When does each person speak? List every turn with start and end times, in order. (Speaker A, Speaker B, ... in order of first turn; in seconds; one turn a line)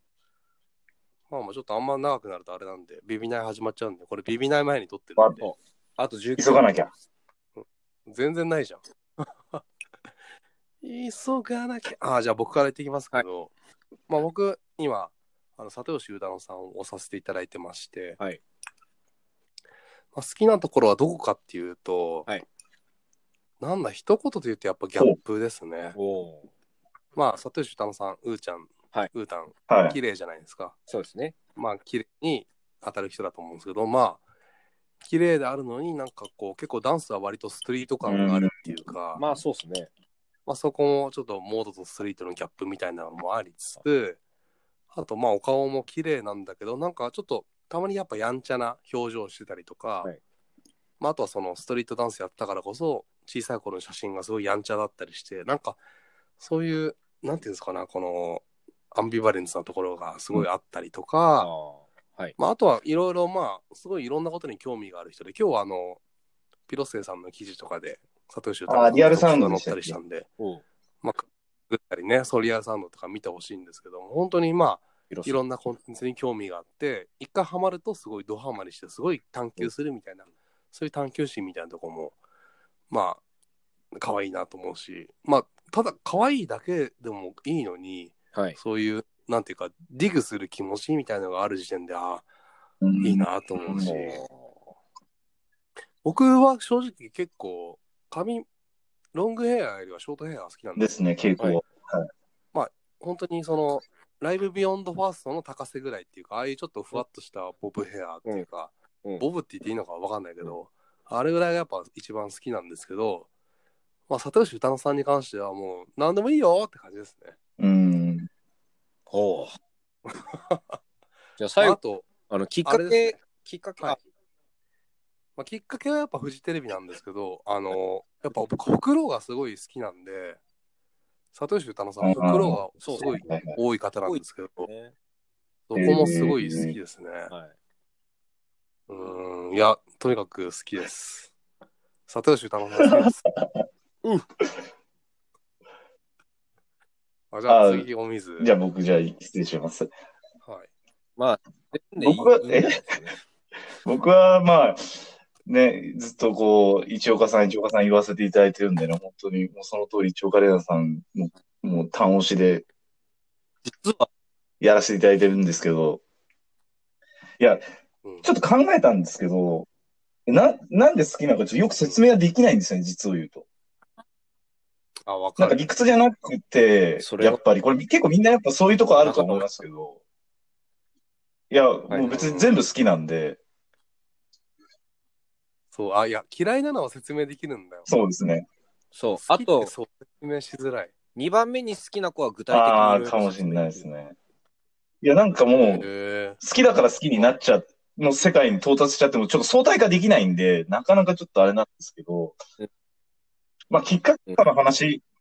Speaker A: 1.3-5.3
Speaker B: 5.2-5.4
Speaker C: 5.4-6.8
Speaker B: 6.4-6.9
Speaker A: 7.6-9.6
Speaker A: 10.8-13.5
Speaker A: 14.1-18.2
Speaker A: 20.1-22.3
Speaker A: 23.6-25.9
Speaker C: 25.9-26.5
Speaker A: 27.1-30.8
Speaker B: 29.7-30.0
Speaker C: 30.9-31.4
Speaker A: 31.5-34.2
Speaker A: 35.0-39.2
Speaker B: 38.0-38.8
Speaker C: 39.1-39.9
Speaker A: 40.5-44.2
Speaker A: 44.9-50.1
Speaker A: 51.0-55.8
Speaker A: 56.4-61.5
Speaker C: 61.4-62.4
Speaker A: 62.4-66.0
Speaker A: 66.7-70.3
Speaker B: 68.7-70.0
Speaker C: 70.4-70.6
Speaker A: 71.0-82.2
Speaker C: 75.1-75.4
Speaker A: 82.9-83.2
Speaker A: 83.9-92.3
Speaker B: 92.8-94.1
Speaker A: 93.0-94.2
Speaker C: 93.7-94.5
Speaker A: 96.0-98.5
Speaker A: 99.1-101.0
Speaker B: 100.8-102.1
Speaker A: 102.5-113.3
Speaker A: 114.1-117.3
Speaker B: 117.6-118.3
Speaker C: 119.1-119.6
Speaker A: 120.1-120.8
Speaker C: 121.4-124.0
Speaker A: 121.6-122.1
Speaker A: 122.6-123.2
Speaker A: 125.4-130.4
Speaker A: 131.3-134.7
Speaker B: 132.0-133.6
Speaker C: 132.8-133.2
Speaker C: 134.0-134.9
Speaker A: 135.7-137.3
Speaker B: 135.7-136.8
Speaker C: 137.3-137.5
Speaker A: 138.9-141.3
Speaker A: 142.1-143.2
Speaker B: 142.8-143.6
Speaker A: 147.3-148.5
Speaker B: 147.5-147.9
Speaker B: 148.4-149.9
Speaker C: 151.2-153.2
Speaker B: 152.0-152.9
Speaker B: 153.8-154.9
Speaker B: 155.4-162.6
Speaker C: 163.6-164.1
Speaker B: 164.6-166.0
Speaker B: 168.2-169.7
Speaker B: 170.3-173.4
Speaker A: 175.1-175.7
Speaker B: 175.4-180.0
Speaker C: 177.0-177.4
Speaker C: 178.9-179.6
Speaker B: 181.5-183.4
Speaker C: 181.9-182.2
Speaker A: 182.1-182.5
Speaker A: 185.7-187.9
Speaker B: 187.9-188.5
Speaker C: 188.9-189.7
Speaker A: 189.2-190.9
Speaker C: 191.2-193.9
Speaker B: 192.5-194.1
Speaker B: 195.0-195.9
Speaker A: 195.5-196.4
Speaker B: 196.4-202.4
Speaker B: 203.7-205.0